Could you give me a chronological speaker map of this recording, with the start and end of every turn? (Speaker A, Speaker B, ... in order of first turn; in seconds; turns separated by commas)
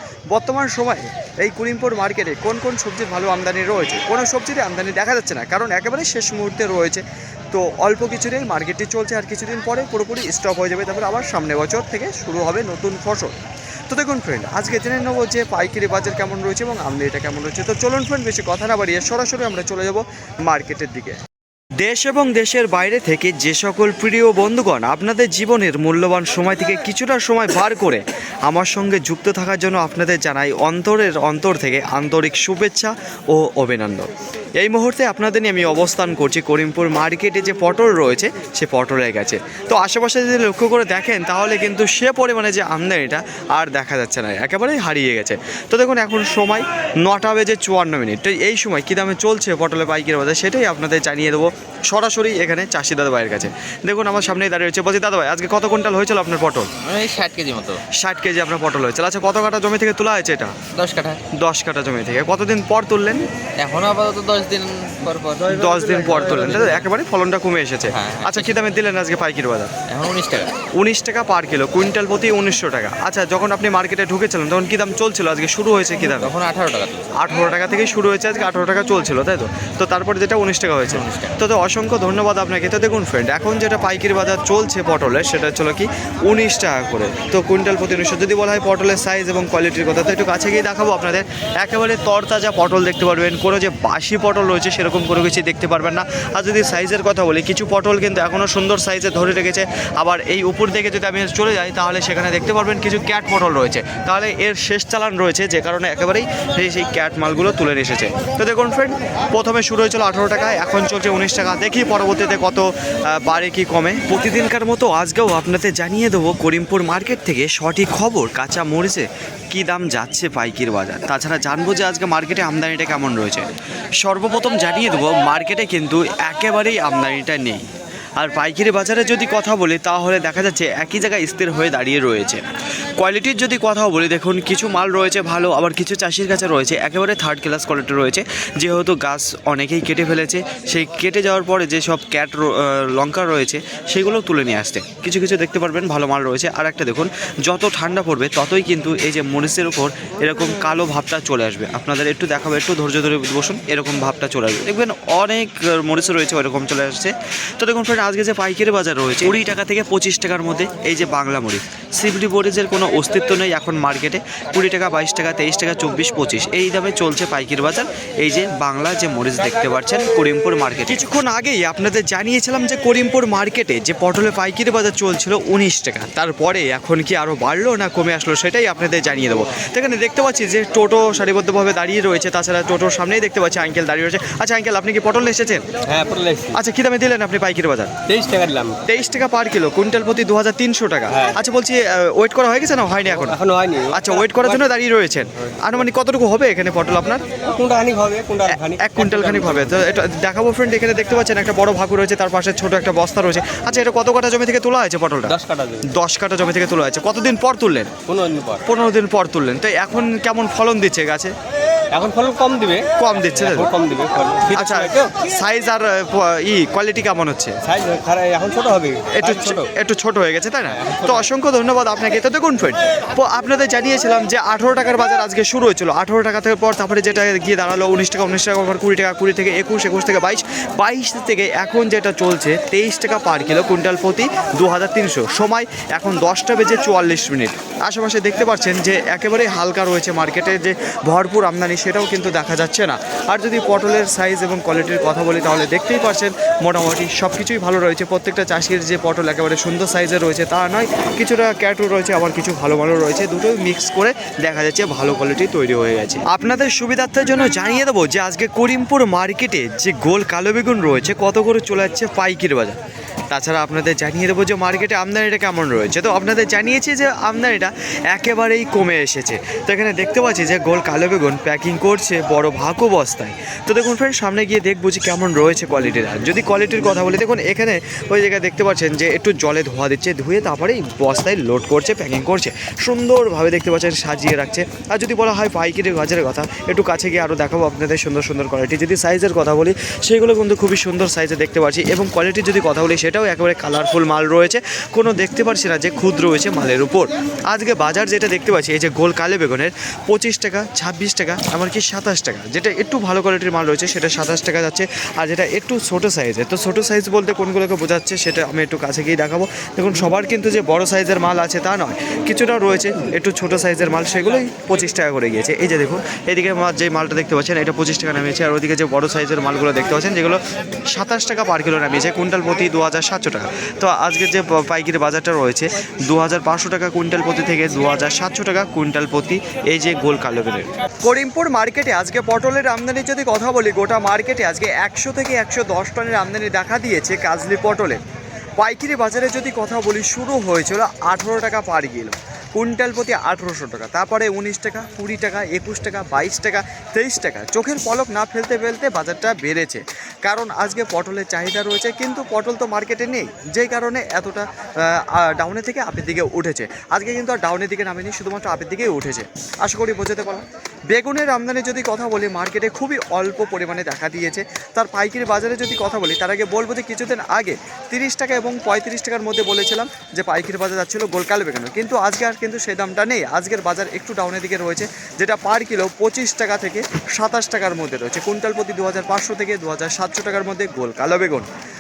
Speaker A: 0.3-13.4, Speaker A: 13.9-21.2, Speaker A: 21.8-56.7, Speaker B: 56.8-57.8, Speaker A: 57.9-60.6, Speaker B: 60.7-61.2, Speaker A: 61.3-63.2, Speaker B: 63.6-66.9, Speaker A: 65.5-69.7, Speaker C: 65.7-66.3, Speaker B: 67.9-68.6, Speaker B: 69.9-70.5, Speaker A: 70.8-76.3, Speaker B: 76.0-77.1, Speaker A: 77.2-123.5, Speaker B: 80.9-81.4, Speaker A: 124.0-132.4, Speaker A: 132.9-185.7, Speaker C: 185.9-186.6, Speaker A: 186.5-187.9, Speaker C: 188.1-188.8, Speaker A: 188.9-193.4, Speaker C: 191.1-191.4, Speaker C: 193.1-194.6, Speaker A: 193.9-197.2, Speaker C: 197.4-199.8, Speaker A: 198.5-207.9, Speaker C: 205.2-205.9, Speaker C: 208.1-208.6, Speaker A: 208.6-211.3, Speaker C: 211.9-215.1, Speaker A: 213.0-213.7, Speaker A: 214.5-217.6, Speaker C: 217.7-219.7, Speaker A: 219.1-262.8, Speaker C: 220.8-221.2, Speaker A: 263.3-338.0, Speaker A: 338.6-381.5